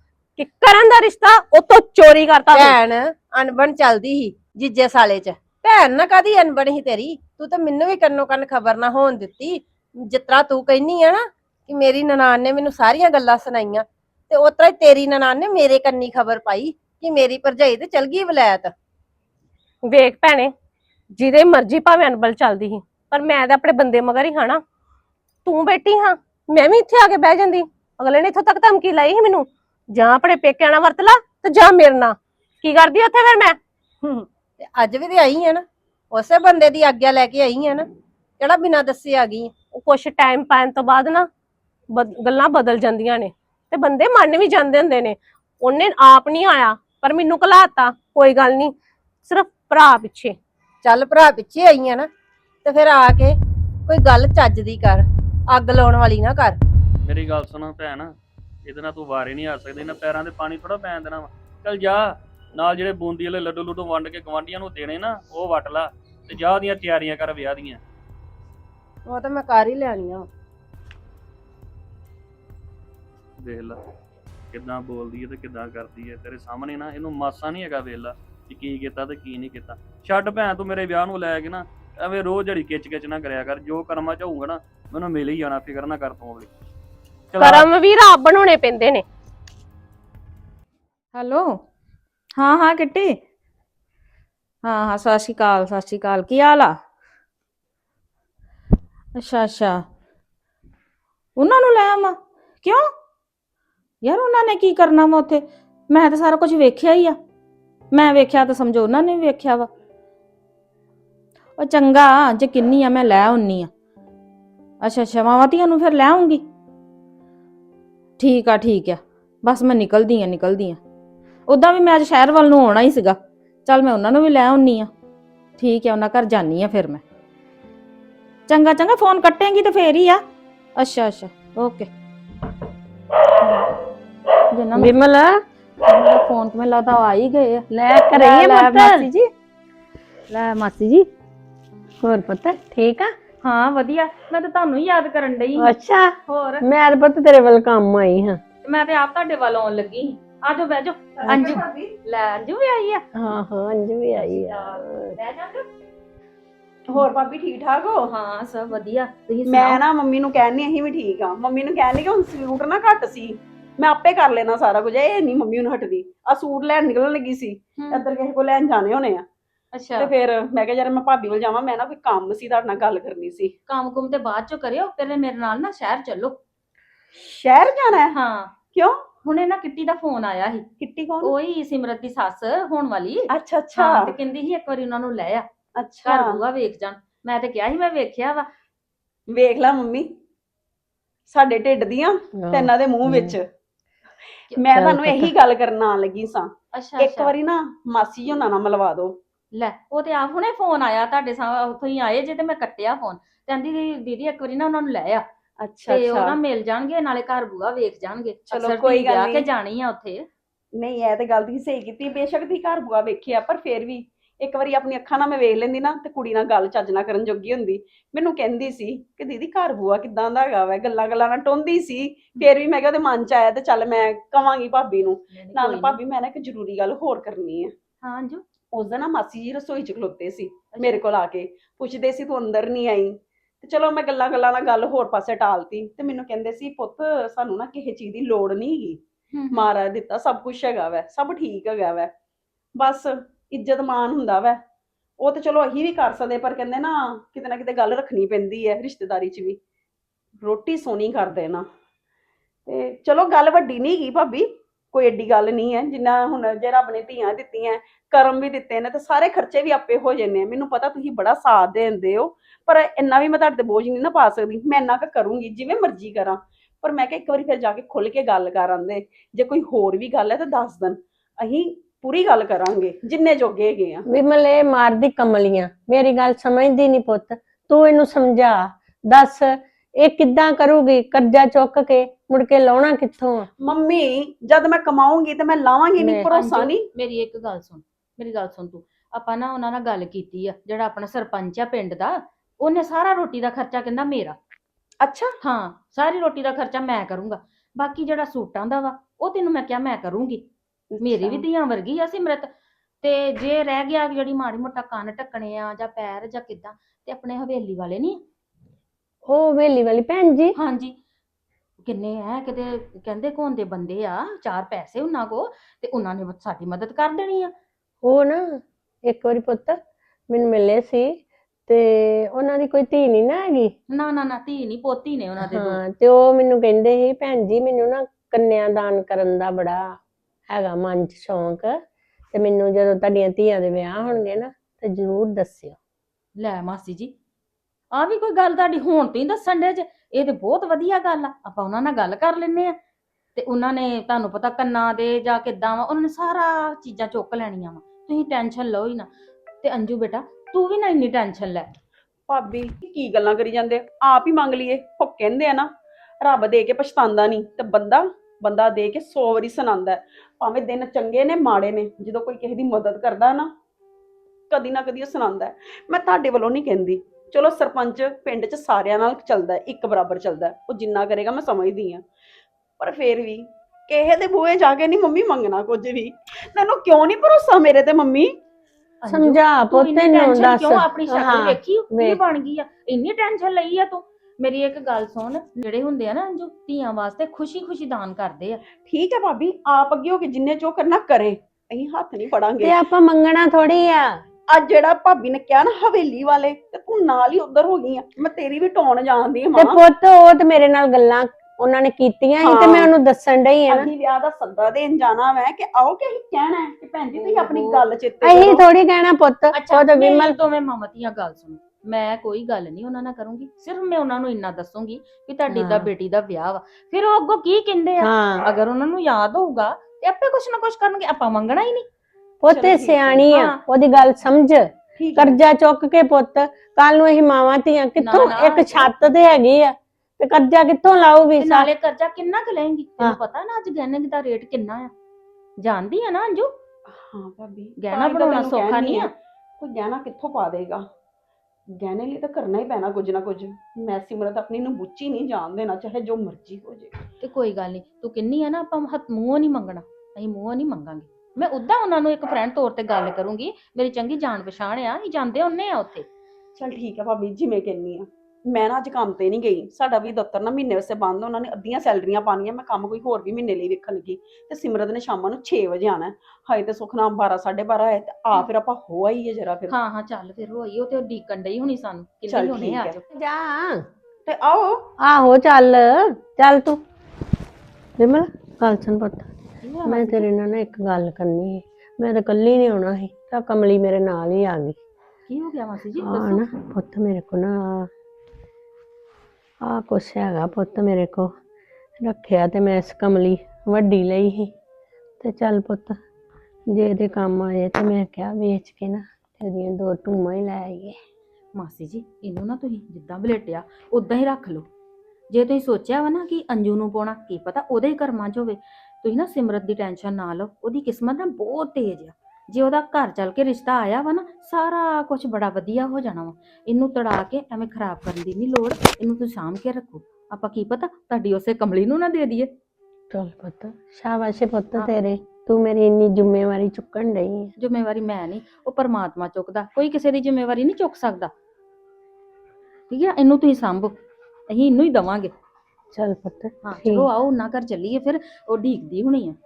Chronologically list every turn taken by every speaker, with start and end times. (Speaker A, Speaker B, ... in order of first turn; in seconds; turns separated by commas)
Speaker A: 0.4-2.8, Speaker B: 2.5-18.7, Speaker A: 19.9-20.5, Speaker A: 21.1-24.6, Speaker A: 25.4-33.6, Speaker B: 34.0-37.9, Speaker B: 38.4-39.5, Speaker A: 39.7-41.3, Speaker A: 41.9-48.7, Speaker A: 49.2-50.4, Speaker B: 50.8-52.1, Speaker B: 52.6-56.6, Speaker C: 57.0-58.1, Speaker C: 58.6-67.8, Speaker B: 69.1-70.3, Speaker C: 73.4-73.8, Speaker C: 74.5-86.5, Speaker C: 87.3-87.7, Speaker A: 87.4-89.0, Speaker D: 91.1-91.6, Speaker D: 92.4-93.2, Speaker D: 94.6-96.8, Speaker D: 99.2-99.9, Speaker D: 101.4-102.9, Speaker D: 104.0-107.2, Speaker D: 107.9-109.7, Speaker D: 111.6-113.7, Speaker D: 114.8-116.5, Speaker D: 118.2-120.8, Speaker D: 121.5-124.9, Speaker D: 125.6-127.0, Speaker D: 128.5-130.2, Speaker D: 130.8-131.9, Speaker D: 134.5-134.9, Speaker E: 134.8-135.4, Speaker D: 135.8-139.2, Speaker E: 137.7-139.1, Speaker D: 140.3-141.1, Speaker E: 142.0-143.2, Speaker D: 143.4-145.7, Speaker E: 145.6-148.4, Speaker D: 146.3-146.7, Speaker D: 148.6-153.1, Speaker F: 151.2-151.9, Speaker E: 151.3-151.6, Speaker E: 153.2-155.2, Speaker D: 154.2-155.7, Speaker F: 156.9-158.1, Speaker D: 158.1-159.8, Speaker F: 159.5-169.2, Speaker D: 167.8-168.1, Speaker D: 169.7-170.1, Speaker F: 170.0-173.5, Speaker D: 173.7-176.4, Speaker F: 177.2-178.2, Speaker D: 178.1-178.5, Speaker F: 178.7-179.1, Speaker D: 179.2-180.7, Speaker F: 180.8-181.3, Speaker D: 181.2-185.5, Speaker F: 183.3-184.2, Speaker F: 185.8-186.4, Speaker D: 186.1-188.5, Speaker F: 189.3-190.1, Speaker F: 191.3-193.4, Speaker E: 192.4-193.4, Speaker F: 194.6-199.2, Speaker E: 194.7-195.3, Speaker D: 196.7-197.3, Speaker D: 199.5-205.3, Speaker F: 205.6-206.4, Speaker D: 205.9-210.3, Speaker F: 208.5-209.5, Speaker F: 210.8-227.7, Speaker D: 225.3-226.0, Speaker D: 228.0-228.4, Speaker F: 228.7-239.0, Speaker D: 230.7-231.0, Speaker D: 239.3-239.7, Speaker F: 239.5-242.1, Speaker F: 242.8-244.6, Speaker F: 245.2-249.6, Speaker F: 250.4-251.7, Speaker F: 252.7-274.1, Speaker E: 274.1-283.5, Speaker F: 283.6-286.9, Speaker E: 286.0-286.3, Speaker D: 286.3-294.4, Speaker F: 295.0-295.4, Speaker D: 295.4-300.5, Speaker D: 301.0-302.5, Speaker D: 303.0-308.2, Speaker E: 309.3-310.6, Speaker D: 310.6-311.0, Speaker D: 311.8-317.5, Speaker E: 318.0-323.7, Speaker D: 323.9-325.8, Speaker E: 325.4-331.8, Speaker E: 332.3-335.8, Speaker D: 336.4-337.1, Speaker D: 337.9-342.8, Speaker D: 343.4-349.1, Speaker D: 349.6-351.7, Speaker F: 352.3-355.7, Speaker F: 356.2-363.5, Speaker F: 364.5-372.1, Speaker F: 372.8-378.4, Speaker D: 379.0-388.6, Speaker E: 379.1-382.2, Speaker F: 388.9-392.8, Speaker E: 392.6-394.2, Speaker F: 394.5-399.8, Speaker E: 399.6-403.9, Speaker F: 402.4-402.9, Speaker F: 403.7-408.6, Speaker D: 407.1-407.8, Speaker E: 408.2-410.4, Speaker D: 409.5-421.9, Speaker E: 415.5-415.9, Speaker E: 418.0-418.4, Speaker E: 422.4-431.7, Speaker F: 422.5-423.2, Speaker D: 423.3-423.6, Speaker F: 425.0-425.4, Speaker D: 428.0-428.9, Speaker D: 431.4-434.9, Speaker D: 435.6-436.5, Speaker F: 436.9-440.9, Speaker D: 437.8-439.1, Speaker F: 441.8-446.9, Speaker D: 447.2-456.1, Speaker F: 456.6-469.8, Speaker D: 469.7-473.0, Speaker F: 472.3-473.0, Speaker E: 473.1-473.9, Speaker F: 474.3-474.8, Speaker E: 475.0-476.8, Speaker E: 478.0-479.3, Speaker D: 479.6-480.3, Speaker E: 479.9-484.8, Speaker D: 485.3-486.4, Speaker E: 486.0-487.9, Speaker E: 489.6-491.3, Speaker E: 492.0-494.5, Speaker E: 495.2-496.0, Speaker E: 496.7-501.0, Speaker D: 501.6-504.7, Speaker D: 505.3-522.5, Speaker E: 523.1-527.5, Speaker D: 527.6-531.3, Speaker D: 532.9-534.0, Speaker D: 534.5-535.3, Speaker E: 535.9-537.1, Speaker D: 536.6-539.4